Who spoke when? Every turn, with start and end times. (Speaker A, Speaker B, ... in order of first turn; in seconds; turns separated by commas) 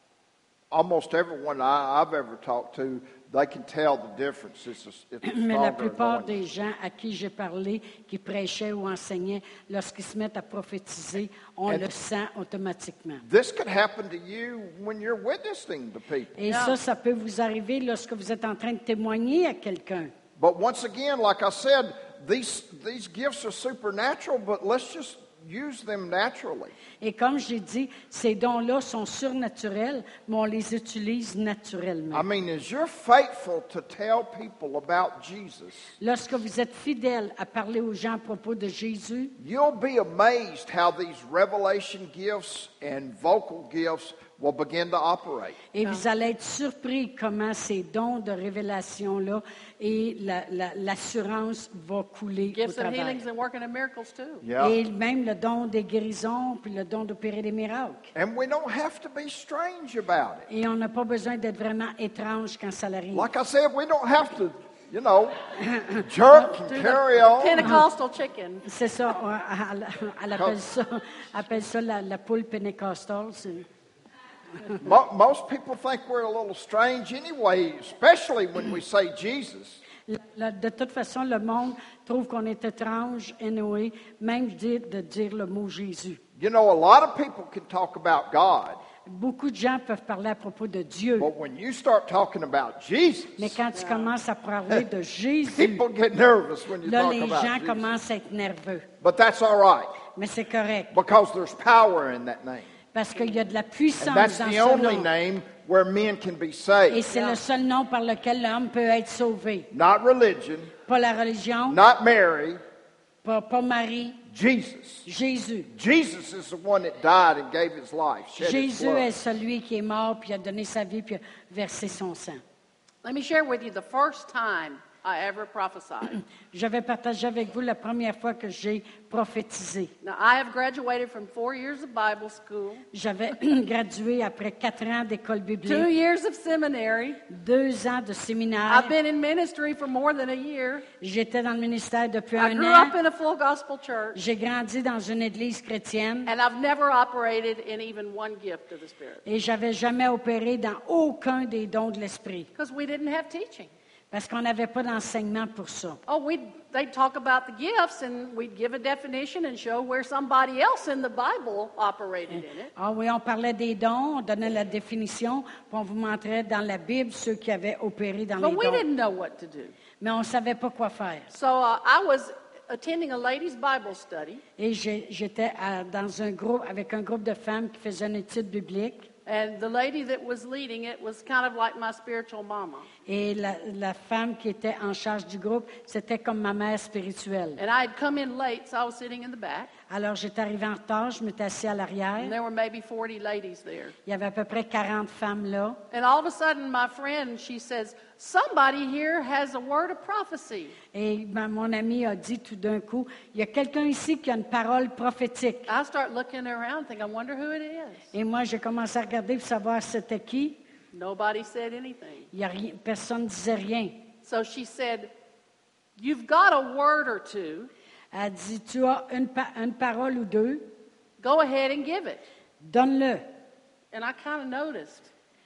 Speaker A: 0.7-6.4, Speaker B: 5.2-13.2, Speaker A: 13.2-16.4, Speaker B: 16.4-20.1, Speaker C: 16.5-16.8, Speaker A: 20.4-26.7, Speaker B: 27.0-32.2, Speaker A: 32.1-35.9, Speaker B: 36.0-39.4, Speaker A: 39.4-45.6, Speaker B: 45.7-53.2, Speaker C: 52.5-54.4, Speaker A: 54.4-54.8, Speaker B: 54.6-58.1, Speaker A: 58.1-60.5, Speaker B: 60.5-63.3, Speaker A: 63.1-65.4, Speaker B: 65.6-66.5, Speaker A: 65.9-67.8, Speaker C: 66.9-68.6, Speaker B: 67.6-67.9, Speaker B: 68.6-73.7, Speaker A: 74.8-79.8, Speaker B: 80.1-86.2, Speaker A: 86.4-88.8, Speaker B: 89.0-91.3, Speaker A: 91.2-93.6, Speaker B: 93.4-95.9, Speaker C: 93.7-94.1, Speaker A: 95.5-97.9, Speaker B: 96.8-98.9, Speaker A: 99.0-100.0, Speaker B: 100.1-100.9, Speaker A: 100.9-102.7, Speaker B: 102.9-105.1, Speaker A: 104.0-107.1, Speaker B: 106.9-109.7, Speaker C: 107.1-107.4, Speaker A: 109.7-110.7, Speaker B: 110.9-111.8, Speaker A: 111.7-112.6, Speaker B: 113.2-114.2, Speaker A: 114.3-115.1, Speaker B: 115.0-115.7, Speaker A: 115.7-119.1, Speaker B: 118.4-122.4, Speaker C: 123.0-126.2, Speaker B: 126.5-129.9, Speaker C: 130.0-132.8, Speaker B: 132.9-135.9, Speaker C: 135.7-137.2, Speaker B: 137.3-138.9, Speaker C: 138.7-140.9, Speaker B: 141.0-142.9, Speaker C: 142.4-144.2, Speaker B: 144.1-146.3, Speaker C: 146.3-149.2, Speaker B: 149.2-152.5, Speaker C: 152.6-153.7, Speaker B: 154.1-156.0, Speaker C: 156.1-162.7, Speaker B: 162.3-168.8, Speaker C: 168.4-169.7, Speaker B: 170.0-171.3, Speaker C: 171.3-174.4, Speaker B: 174.6-179.1, Speaker C: 179.3-182.9, Speaker B: 183.1-187.6, Speaker C: 187.6-189.7, Speaker B: 189.9-192.3, Speaker C: 192.2-193.9, Speaker B: 194.1-195.8, Speaker C: 195.9-200.8, Speaker B: 200.9-205.7, Speaker C: 205.7-208.1, Speaker B: 208.1-210.6, Speaker C: 210.9-212.3, Speaker B: 212.3-214.0, Speaker C: 214.2-215.1, Speaker C: 216.0-217.7, Speaker B: 218.1-220.7, Speaker C: 221.2-222.2, Speaker B: 222.6-223.2, Speaker C: 223.9-225.1